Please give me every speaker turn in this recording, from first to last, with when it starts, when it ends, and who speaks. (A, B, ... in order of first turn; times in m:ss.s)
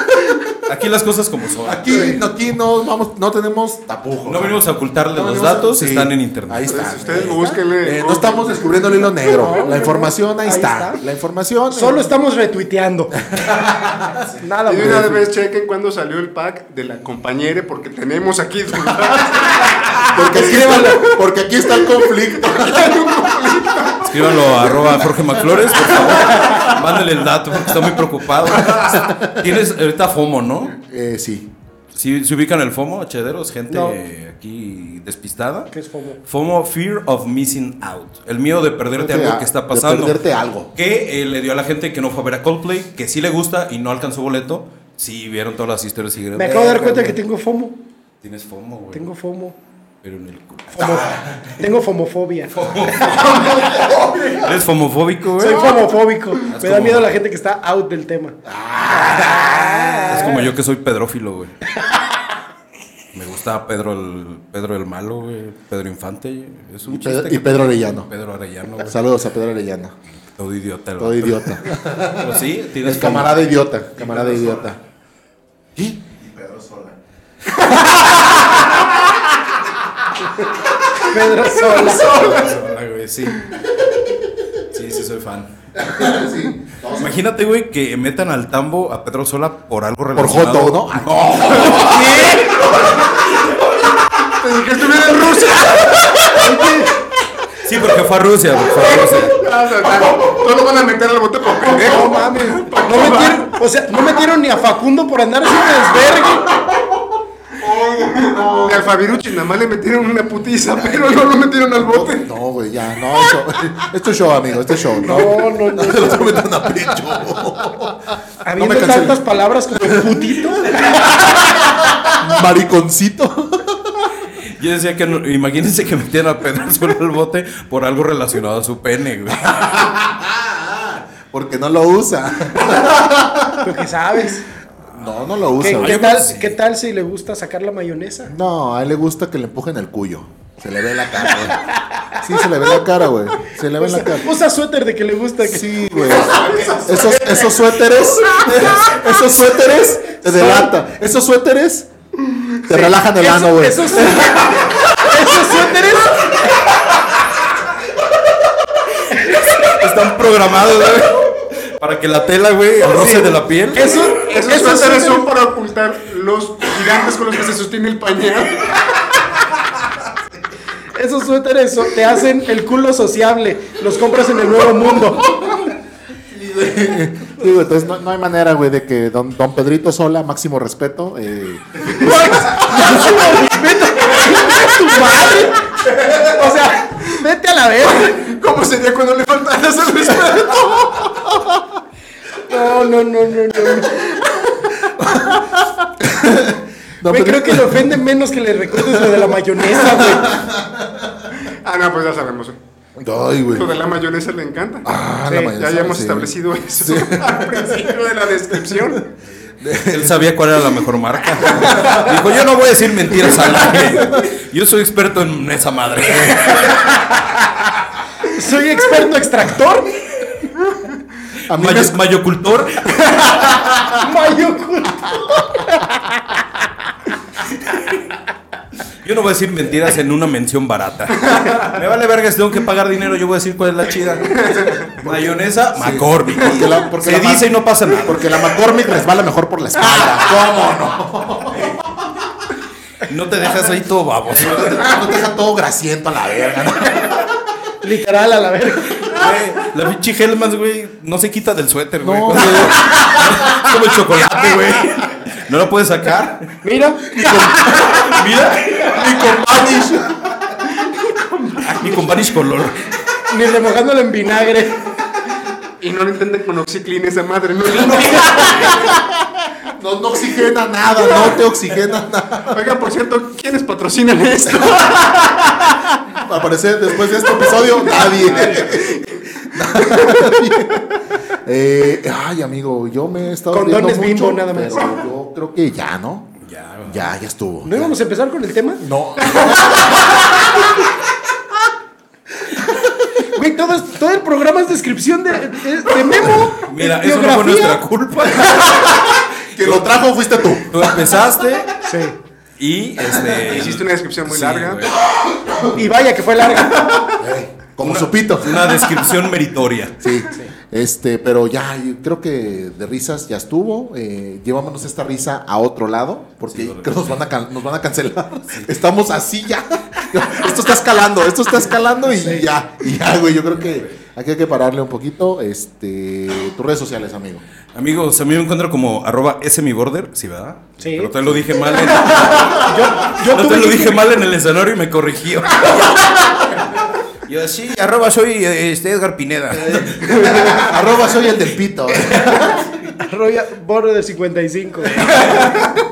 0:00.7-0:02.2 A
0:01.6-0:04.6 B
0:04.2-0:07.3 A
0:05.1-0:12.1 B
0:06.7-0:08.7 C
0:09.3-0:11.0 D
0:11.7-0:13.2 D
0:13.3-0:14.2 B
0:14.4-0:15.3 D
0:14.7-0:21.2 C
0:20.1-0:23.4 B
0:20.6-0:20.9 D
0:21.8-0:24.1 C
0:24.0-0:30.8 A
0:24.4-0:26.6 B
0:28.6-0:29.4 B
0:30.8-0:31.5 B
0:32.0-0:35.7 A
0:33.7-0:34.0 D
0:35.7-0:36.2 D
0:36.2-0:40.2 A
0:38.9-0:40.7 B
0:40.8-0:47.2 A
0:46.4-0:47.8 D
0:48.2-0:49.1 A
0:48.9-0:49.6 D
0:50.0-0:51.5 A
0:50.7-0:52.6 D
0:51.1-0:51.4 B
0:52.5-0:55.9 A
0:53.9-0:54.3 B
0:55.4-0:58.4 D
0:56.4-0:57.1 A
0:58.4-1:00.3 B
0:58.9-1:00.4 D
1:00.1-1:01.6 A
1:03.1-1:09.0 A
1:06.8-1:08.1 B
1:08.8-1:10.0 B
1:10.3-1:13.3 A
1:11.0-1:14.8 B
1:14.0-1:14.7 E
1:15.8-1:16.0 B
1:16.2-1:17.0 E
1:17.6-1:18.6 B
1:20.2-1:22.3 D
1:21.6-1:22.5 C
1:21.8-1:23.5 A
1:24.7-1:25.5 A
1:25.8-1:27.2 B
1:26.9-1:33.6 A
1:30.2-1:32.1 B
1:34.3-1:36.4 C
1:36.3-1:36.9 D
1:37.6-1:39.4 A
1:38.8-1:43.5 C
1:41.8-1:46.6 D
1:47.6-1:49.0 B
1:47.7-1:52.3 C
1:51.8-1:59.2 B
1:55.0-1:56.7 D
1:58.4-2:01.7 D
2:01.6-2:04.1 B
2:04.6-2:09.8 A
2:09.4-2:13.8 B
2:13.6-2:14.5 D
2:14.9-2:16.1 B
2:15.6-2:18.3 D
2:15.6-2:16.6 A
2:18.3-2:21.6 B
2:21.9-2:22.7 D
2:22.2-2:24.3 B
2:23.8-2:26.0 D
2:25.4-2:31.9 B
2:26.3-2:26.9 C
2:27.0-2:27.4 D
2:30.2-2:30.7 D
2:32.6-2:34.7 B
2:32.7-2:36.7 D
2:39.2-2:44.0 A
2:42.8-2:43.3 B
2:42.9-2:43.2 D
2:43.7-2:45.3 D
2:44.1-2:49.2 C
2:51.0-2:55.6 D
2:56.3-2:56.8 E
2:56.5-3:03.2 B
3:02.0-3:08.3 D
3:02.1-3:02.5 C
3:08.1-3:11.4 C
3:12.4-3:14.0 D
3:13.8-3:14.7 C
3:14.8-3:18.0 B
3:17.1-3:20.4 D
3:18.7-3:21.3 B
3:21.4-3:22.6 C
3:23.0-3:23.8 B
3:23.5-3:24.9 C
3:24.8-3:28.0 B
3:25.3-3:25.6 D
3:25.5-3:29.1 C
3:28.7-3:29.0 B
3:29.6-3:30.3 B
3:29.8-3:37.2 A
3:31.4-3:32.1 B
3:33.3-3:34.2 B
3:36.2-3:36.5 B
3:38.3-3:40.0 D
3:41.5-3:42.0 B
3:41.5-3:43.6 A
3:43.4-3:43.9 B
3:43.9-3:46.4 D
3:49.0-3:58.4 A
3:54.4-3:55.0 C
3:55.7-3:57.5 B
3:58.0-4:02.0 B
4:03.0-4:04.9 A
4:04.3-4:07.4 B
4:07.8-4:09.2 D
4:09.1-4:16.6 A
4:12.0-4:14.8 B
4:16.6-4:17.4 D
4:17.1-4:20.4 B
4:17.3-4:19.0 A
4:20.7-4:22.1 C
4:21.6-4:22.9 A
4:23.3-4:24.9 D
4:25.8-4:28.9 C
4:28.0-4:32.7 B
4:32.5-4:36.0 C
4:36.2-4:40.9 B
4:37.9-4:39.9 C
4:38.2-4:38.7 D
4:41.4-4:46.3 B
4:43.5-4:44.9 D
4:46.4-4:47.1 A
4:46.9-4:47.9 B
4:47.6-4:48.8 D
4:48.8-4:50.5 B
4:53.3-4:57.8 D
4:56.5-4:59.9 A
4:58.4-5:01.0 B
5:00.6-5:01.7 A
5:01.8-5:02.2 D
5:02.6-5:05.0 A
5:03.4-5:04.9 C
5:05.4-5:05.7 B
5:05.7-5:07.2 D
5:07.1-5:09.0 B
5:07.8-5:10.0 A
5:10.0-5:27.4 B
5:16.5-5:17.2 A
5:22.2-5:22.5 D
5:23.7-5:23.9 A
5:27.7-5:36.6 A
5:30.8-5:31.1 D
5:31.7-5:34.0 D
5:37.3-5:40.2 A
5:39.6-5:40.6 E
5:40.2-5:42.7 B
5:43.0-5:45.3 D